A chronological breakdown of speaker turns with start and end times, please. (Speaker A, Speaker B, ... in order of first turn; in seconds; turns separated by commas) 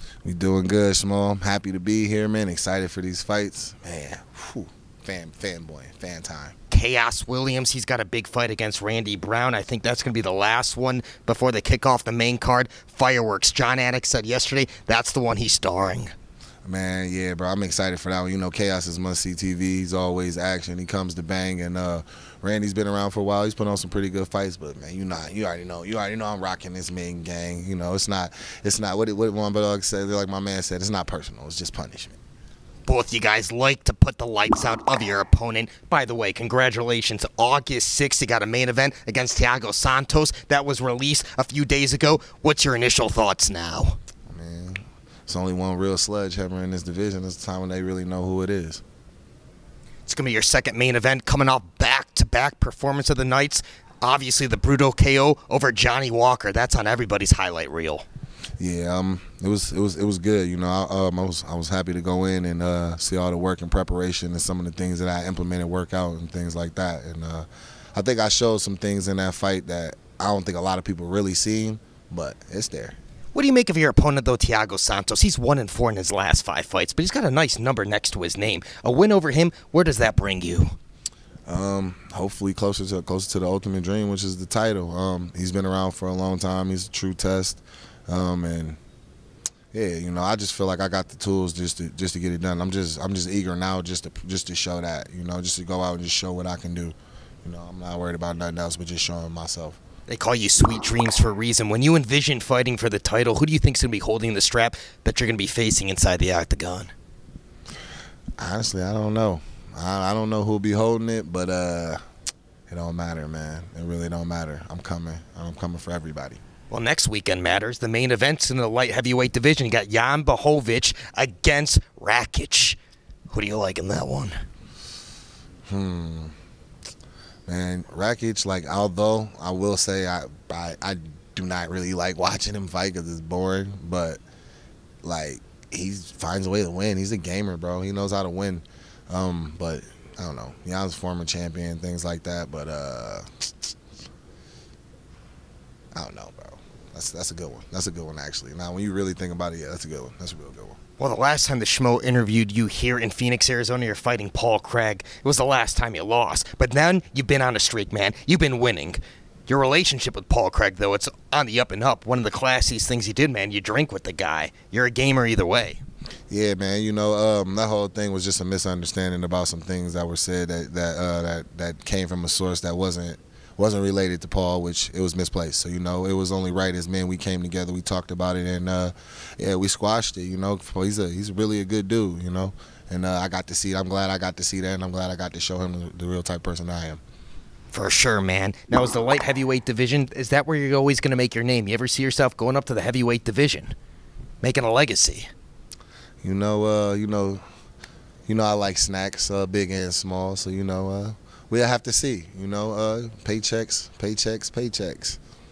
Speaker A: 0.2-6.5, Speaker B: 6.7-16.1, Speaker A: 16.6-32.2, Speaker B: 32.9-44.0, Speaker A: 44.3-48.8, Speaker B: 50.1-58.0, Speaker A: 58.6-73.0, Speaker B: 73.3-80.8, Speaker A: 81.5-88.8, Speaker A: 89.7-99.8, Speaker B: 100.1-106.9, Speaker A: 108.4-112.0, Speaker A: 112.7-116.4, Speaker B: 116.7-122.8, Speaker B: 123.3-124.4, Speaker A: 125.7-126.3, Speaker A: 127.5-134.2, Speaker A: 135.0-143.7, Speaker A: 145.9-150.8, Speaker B: 151.0-165.8, Speaker A: 166.3-187.0, Speaker B: 187.7-193.7, Speaker B: 194.4-195.3, Speaker A: 196.2-197.4, Speaker A: 198.3-205.2